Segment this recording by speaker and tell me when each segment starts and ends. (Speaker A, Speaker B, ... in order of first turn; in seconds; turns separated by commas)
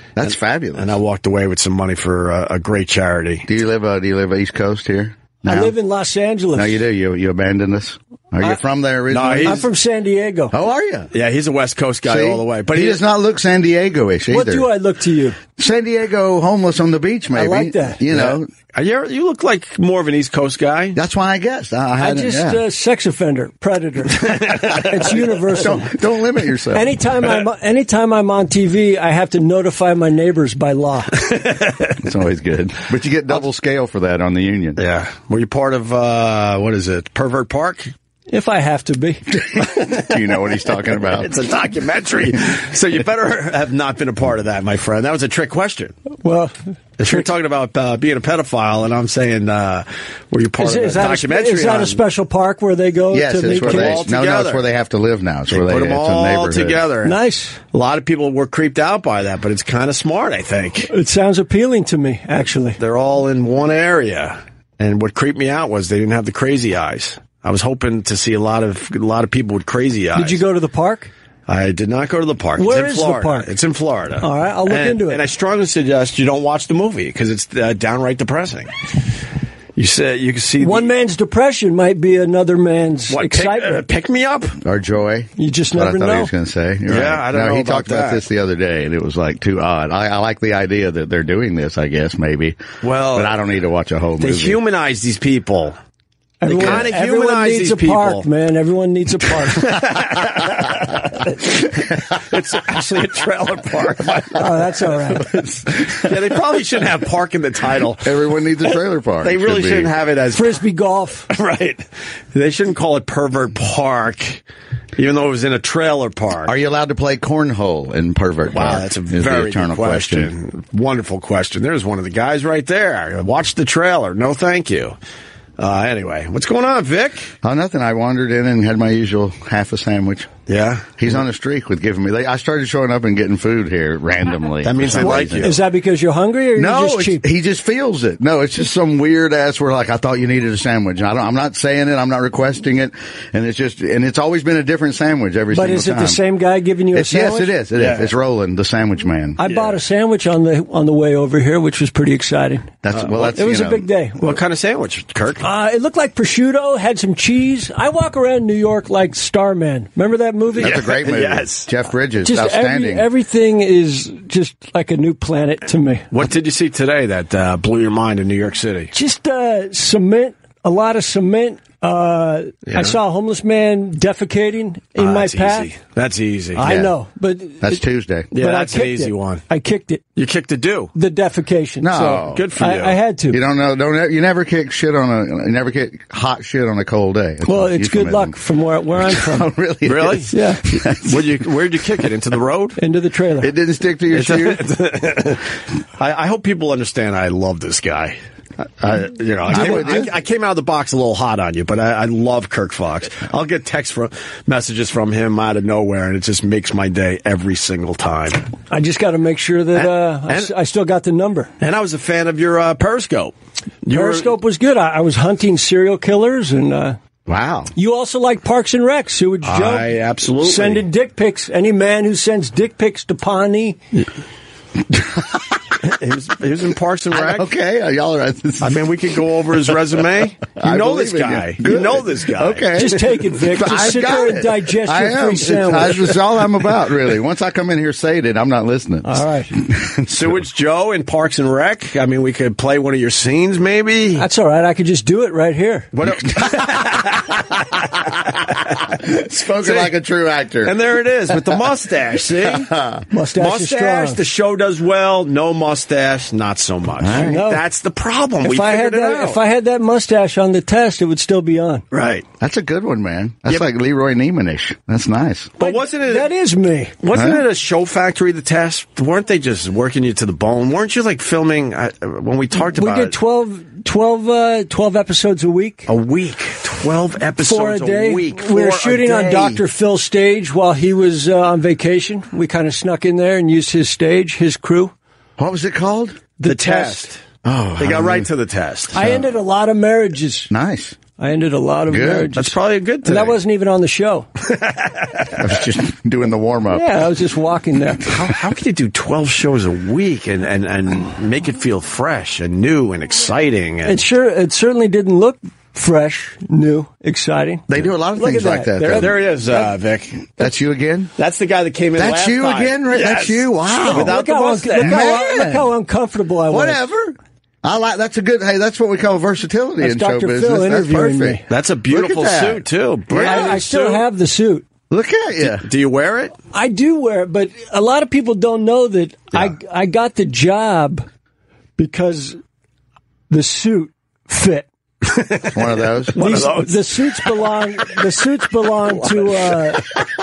Speaker A: 0.1-1.0, Speaker B: 0.2-3.5, Speaker A: 3.5-5.7, Speaker C: 5.5-6.8, Speaker A: 6.5-9.6, Speaker B: 9.1-9.6, Speaker C: 9.4-10.5, Speaker A: 10.5-11.1, Speaker B: 11.1-13.0, Speaker A: 12.0-14.7, Speaker C: 14.3-15.4, Speaker A: 15.6-18.5, Speaker C: 17.3-18.0, Speaker B: 18.1-21.0, Speaker A: 20.9-22.6, Speaker C: 22.0-25.9, Speaker B: 24.2-24.8, Speaker A: 25.4-26.9, Speaker C: 26.7-31.2, Speaker B: 31.3-31.9, Speaker A: 32.0-34.8, Speaker B: 34.8-37.9, Speaker C: 38.3-39.2, Speaker A: 39.4-41.3, Speaker B: 39.7-40.2, Speaker B: 40.9-46.0, Speaker C: 46.2-46.5, Speaker B: 47.0-52.0, Speaker C: 50.6-54.0, Speaker A: 53.1-56.8, Speaker B: 53.5-54.6, Speaker B: 55.5-57.2, Speaker C: 57.0-57.6, Speaker B: 57.7-60.9, Speaker C: 60.9-62.8, Speaker B: 62.8-70.4, Speaker C: 70.1-71.1, Speaker B: 71.5-78.7, Speaker C: 72.6-73.5, Speaker C: 74.2-75.2, Speaker B: 79.8-80.9, Speaker C: 80.6-83.8, Speaker B: 83.1-84.6, Speaker A: 84.6-92.6, Speaker C: 85.4-86.3, Speaker B: 86.9-88.2, Speaker B: 92.8-93.4, Speaker A: 93.1-94.6, Speaker B: 94.2-95.8, Speaker C: 96.4-99.9, Speaker B: 96.5-98.2, Speaker B: 99.6-101.3, Speaker B: 102.1-104.5, Speaker C: 104.3-105.3, Speaker A: 105.2-106.1, Speaker B: 105.8-108.1, Speaker A: 108.0-109.9, Speaker B: 109.2-110.6, Speaker C: 110.3-111.3, Speaker B: 111.3-114.4, Speaker B: 115.0-116.5, Speaker A: 116.5-120.3, Speaker B: 118.5-125.0, Speaker B: 125.6-127.3, Speaker A: 127.4-130.3, Speaker B: 130.5-131.0, Speaker A: 131.0-135.5, Speaker B: 134.6-135.6, Speaker C: 135.0-137.2, Speaker A: 136.6-146.2, Speaker C: 145.5-147.5, Speaker A: 146.9-149.4, Speaker B: 147.8-148.1, Speaker C: 149.4-152.7, Speaker B: 149.4-149.7, Speaker A: 152.8-153.8, Speaker B: 152.9-153.3, Speaker C: 153.2-154.3, Speaker B: 154.2-155.4, Speaker C: 155.4-160.8, Speaker A: 160.6-163.1, Speaker B: 160.6-161.7, Speaker C: 162.2-166.1, Speaker B: 166.1-168.9, Speaker C: 168.9-175.7, Speaker B: 172.7-173.0, Speaker B: 175.0-176.9, Speaker C: 176.6-177.8, Speaker A: 177.6-178.3, Speaker B: 178.3-179.4, Speaker C: 178.3-180.0, Speaker B: 180.2-180.9, Speaker C: 180.9-183.4, Speaker A: 181.8-182.5, Speaker B: 182.2-183.0, Speaker A: 183.3-188.4, Speaker C: 187.5-189.5, Speaker A: 189.0-191.3, Speaker B: 189.8-190.3, Speaker C: 190.3-190.6, Speaker B: 190.9-192.8, Speaker C: 192.8-193.5, Speaker A: 193.4-194.6, Speaker B: 194.1-195.4, Speaker B: 196.0-198.2, Speaker B: 198.8-208.5, Speaker A: 199.5-200.1, Speaker C: 199.5-199.8, Speaker C: 208.7-211.5, Speaker B: 209.7-210.5, Speaker B: 211.6-214.3, Speaker C: 213.9-217.0, Speaker A: 217.3-217.7, Speaker C: 217.8-219.9, Speaker B: 219.4-220.8, Speaker C: 220.4-223.8, Speaker A: 224.9-225.5, Speaker B: 225.8-227.5, Speaker A: 227.1-228.8, Speaker B: 228.6-232.9, Speaker A: 230.6-240.4, Speaker C: 232.8-236.1, Speaker C: 239.0-239.5, Speaker B: 240.1-244.2, Speaker C: 244.2-245.9, Speaker B: 245.9-248.6, Speaker A: 246.3-247.2, Speaker A: 249.0-250.7, Speaker B: 249.6-249.9, Speaker B: 250.6-252.7, Speaker A: 252.4-253.0, Speaker C: 253.1-254.2, Speaker B: 253.4-259.4, Speaker A: 257.0-257.4, Speaker C: 257.1-257.6, Speaker C: 258.4-261.8, Speaker B: 261.9-262.2, Speaker A: 262.4-265.5, Speaker B: 265.6-266.3, Speaker C: 265.6-266.9, Speaker B: 267.0-273.1, Speaker A: 267.1-267.4, Speaker C: 272.7-275.9, Speaker B: 275.9-279.6, Speaker C: 277.4-284.9, Speaker A: 285.4-286.2, Speaker C: 286.4-287.1, Speaker B: 286.4-287.2, Speaker A: 287.4-288.3, Speaker B: 287.8-289.0, Speaker C: 288.9-290.5, Speaker A: 290.5-291.0, Speaker C: 291.2-294.3, Speaker A: 291.9-292.3, Speaker B: 292.4-293.4, Speaker B: 294.5-295.4, Speaker A: 295.4-297.0, Speaker C: 296.7-298.1, Speaker B: 298.1-304.0, Speaker C: 303.8-309.0, Speaker A: 307.7-309.6, Speaker B: 308.8-310.5, Speaker A: 310.4-311.1, Speaker B: 311.2-315.1, Speaker A: 311.9-314.1, Speaker C: 313.9-316.8, Speaker A: 314.8-315.7, Speaker A: 316.5-323.6, Speaker C: 319.8-321.4, Speaker B: 321.5-324.1, Speaker C: 323.2-324.6, Speaker A: 324.9-325.6, Speaker B: 325.4-326.3, Speaker C: 326.5-331.1, Speaker C: 331.8-332.4, Speaker C: 333.3-334.6, Speaker B: 335.0-337.9, Speaker A: 335.5-336.1, Speaker C: 336.2-339.9, Speaker B: 338.8-340.0